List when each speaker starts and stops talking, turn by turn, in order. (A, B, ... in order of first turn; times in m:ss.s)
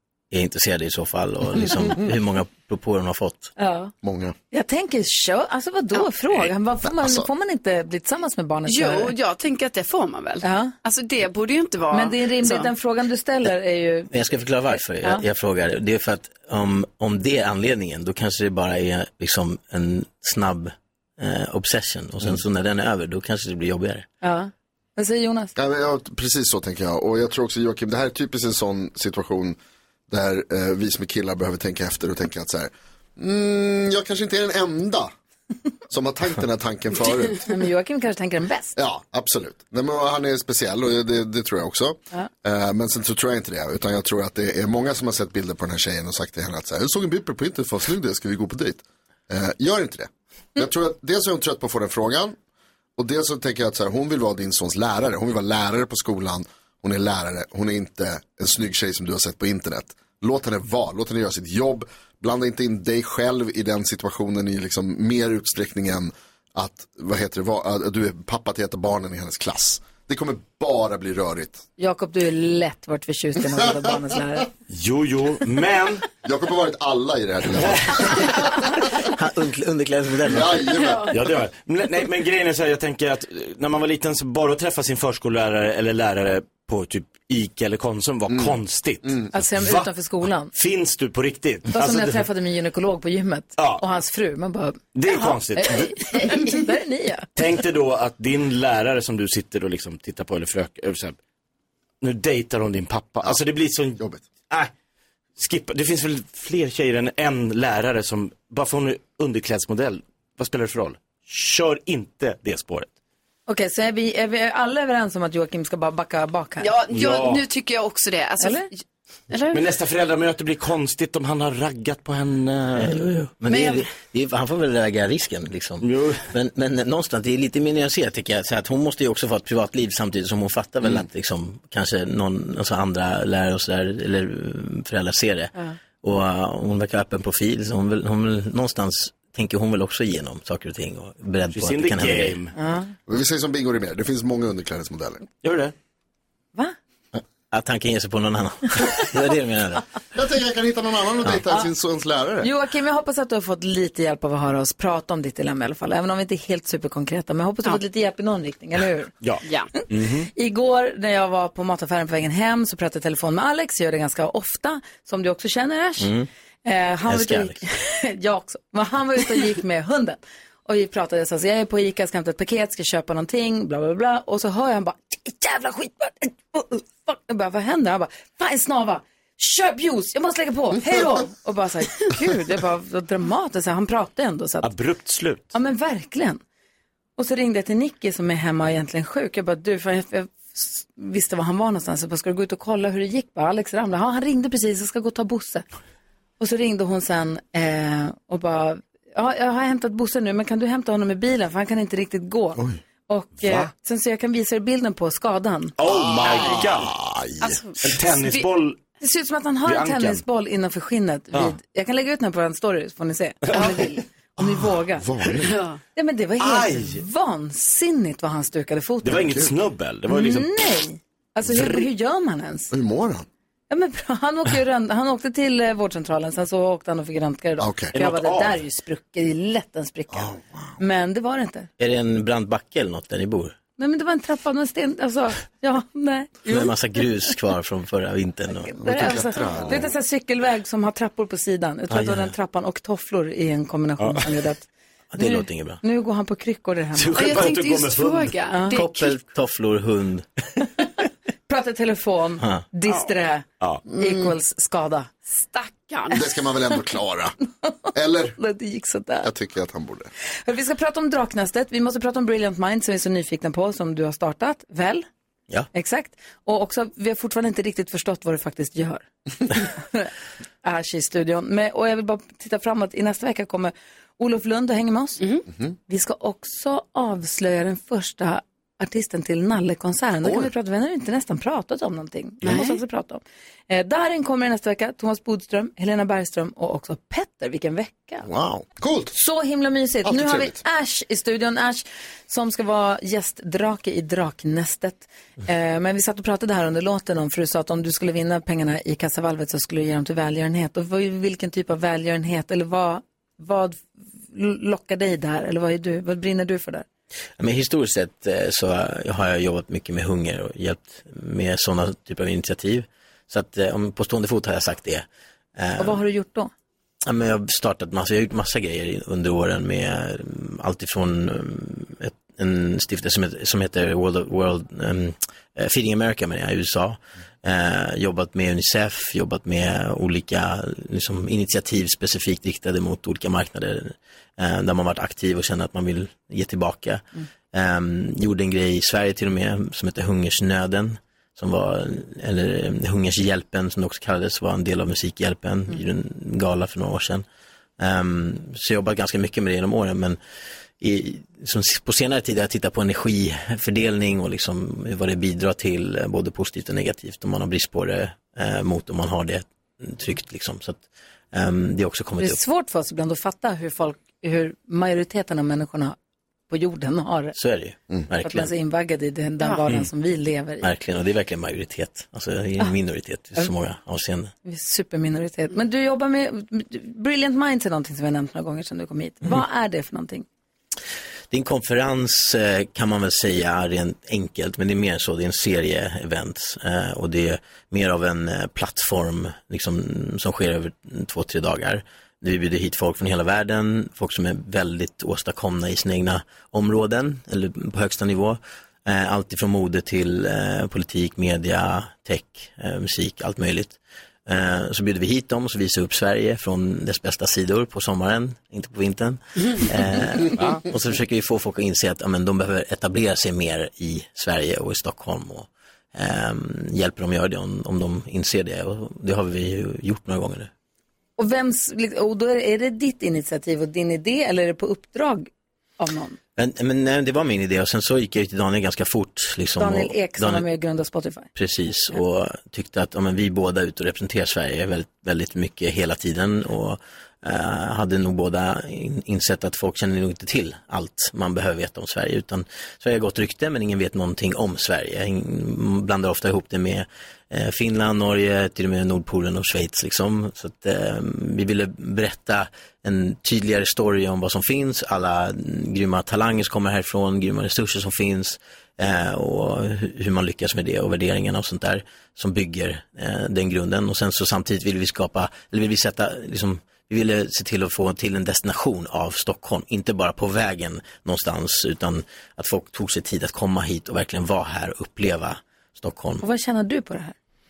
0:00.3-0:03.6 A
0:03.6-0:03.9 B
0:04.0-0:04.4 C
0:04.5-0:09.1 B
0:06.9-0:07.3 C
0:08.7-0:12.7 D
0:10.4-0:10.7 B
0:11.9-0:14.1 B
0:14.1-0:24.1 A
0:24.2-0:25.5 B
0:25.6-0:29.6 C
0:30.1-0:35.1 C
0:35.9-0:37.4 C
0:37.4-0:38.8 B
0:38.8-0:52.4 C
0:53.0-1:11.6 C
1:11.8-1:14.5 B
1:14.7-1:16.0 E
1:16.2-1:18.3 C
1:17.6-1:18.1 E
1:19.1-1:20.7 A
1:20.3-1:21.1 C
1:21.1-1:29.9 E
1:28.3-1:29.2 C
1:29.3-1:30.5 B
1:30.4-1:32.3 E
1:31.7-1:37.3 B
1:33.6-1:33.8 E
1:34.9-1:36.1 E
1:37.4-1:41.2 E
1:42.0-1:44.7 E
1:44.0-1:44.3 C
1:45.4-1:52.9 E
1:53.5-1:56.7 B
1:56.6-1:58.7 D
1:56.9-1:57.4 E
1:58.4-1:58.7 B
1:59.3-1:59.6 D
1:59.5-2:03.1 E
2:02.8-2:22.4 A
2:05.8-2:06.3 E
2:21.5-2:22.5 E
2:22.6-2:22.9 B
2:23.1-2:25.2 C
2:25.4-2:25.7 E
2:27.1-2:29.9 A
2:30.1-2:32.5 C
2:32.4-2:39.1 B
2:39.2-2:40.3 E
2:40.3-2:46.1 B
2:46.0-2:46.3 A
2:46.6-3:04.7 B
2:47.1-2:47.6 A
3:04.6-3:05.5 E
3:05.5-3:06.4 B
3:07.2-3:15.6 B
3:16.4-3:25.8 B
3:25.8-3:26.9 E
3:25.8-3:27.6 C
3:27.4-3:27.8 D
3:27.8-3:28.8 E
3:29.0-3:35.1 B
3:29.6-3:30.2 E
3:34.4-3:35.6 C
3:35.4-3:35.8 D
3:36.0-3:39.3 B
3:36.4-3:37.0 E
3:39.0-3:40.6 E
3:39.2-3:39.5 C
3:40.1-3:42.7 B
3:42.7-3:43.3 C
3:43.7-3:51.7 B
3:47.6-3:47.9 C
3:47.9-3:48.6 E
3:50.1-3:50.8 C
3:51.8-3:53.6 A
3:53.8-3:56.7 B
3:56.5-3:59.1 A
3:58.5-4:07.5 B
3:58.8-3:59.9 C
4:01.9-4:02.3 A
4:04.0-4:04.3 E
4:05.1-4:05.8 A
4:07.0-4:08.4 E
4:07.2-4:09.1 D
4:08.5-4:08.8 B
4:08.7-4:10.3 A
4:11.5-4:15.2 B
4:15.5-4:16.2 D
4:16.1-4:17.4 C
4:17.9-4:18.4 C
4:18.4-4:19.3 B
4:19.2-4:20.1 C
4:20.4-4:25.1 B
4:25.7-4:30.1 B
4:30.6-4:35.2 B
4:35.9-4:48.3 B
4:40.2-4:40.5 C
4:42.4-4:42.8 D
4:48.2-4:49.2 C
4:49.1-5:06.8 B
4:50.0-4:50.6 C
5:07.4-5:16.0 A
5:15.8-5:16.5 B
5:17.0-5:47.2 A
5:47.8-5:50.2 A
5:50.8-6:02.4 A
6:02.2-6:06.0 B
6:06.5-6:07.4 B
6:07.4-6:08.5 A
6:08.2-6:10.7 B
6:10.6-6:14.3 A
6:14.4-6:20.3 B
6:21.3-7:00.5 A
7:01.2-7:06.2 B
7:06.4-7:10.5 A
7:09.6-7:11.3 B
7:11.4-7:56.2 A
7:56.2-7:57.2 B